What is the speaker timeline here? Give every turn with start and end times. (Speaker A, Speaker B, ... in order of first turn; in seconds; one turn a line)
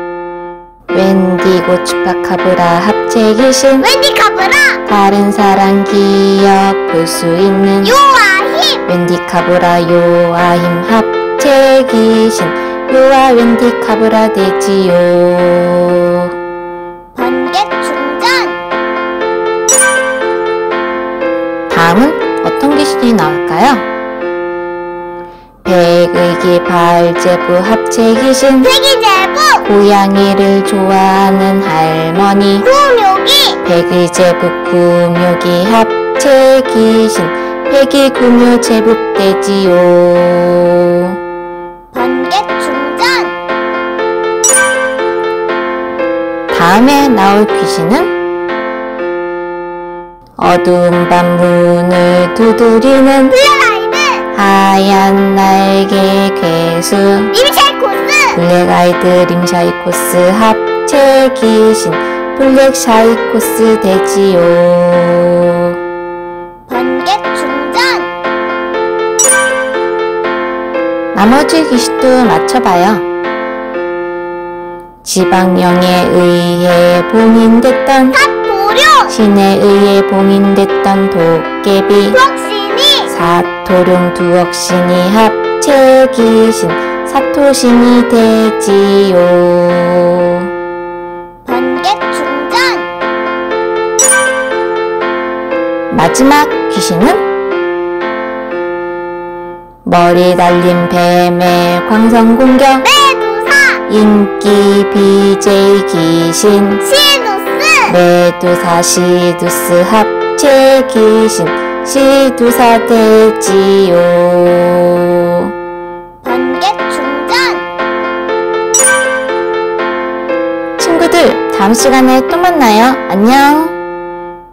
Speaker A: 0.9-3.9
Speaker B: 3.8-4.8
Speaker A: 4.8-8.0
Speaker B: 7.8-8.8
Speaker A: 8.9-16.3
Speaker B: 17.1-18.6
Speaker A: 21.7-23.9
Speaker A: 25.6-28.7
Speaker B: 28.6-29.7
Speaker A: 29.6-32.7
Speaker B: 32.6-33.6
Speaker A: 33.6-41.2
Speaker B: 41.9-43.4
Speaker A: 46.5-48.1
Speaker A: 50.4-53.4
Speaker B: 53.3-54.2
Speaker A: 54.3-57.3
Speaker B: 57.3-58.4
Speaker A: 58.3-65.8
Speaker B: 66.7-68.1
Speaker A: 71.1-73.1
Speaker A: 75.0-78.2
Speaker B: 78.1-79.1
Speaker A: 79.1-82.2
Speaker B: 82.1-83.1
Speaker A: 83.1-90.5
Speaker B: 91.5-92.9
Speaker A: 95.9-97.2
Speaker A: 99.8-102.9
Speaker B: 102.8-103.8
Speaker A: 103.9-106.8
Speaker B: 106.8-108.0
Speaker A: 107.9-115.5
Speaker B: 116.2-117.7
Speaker A: 120.8-123.8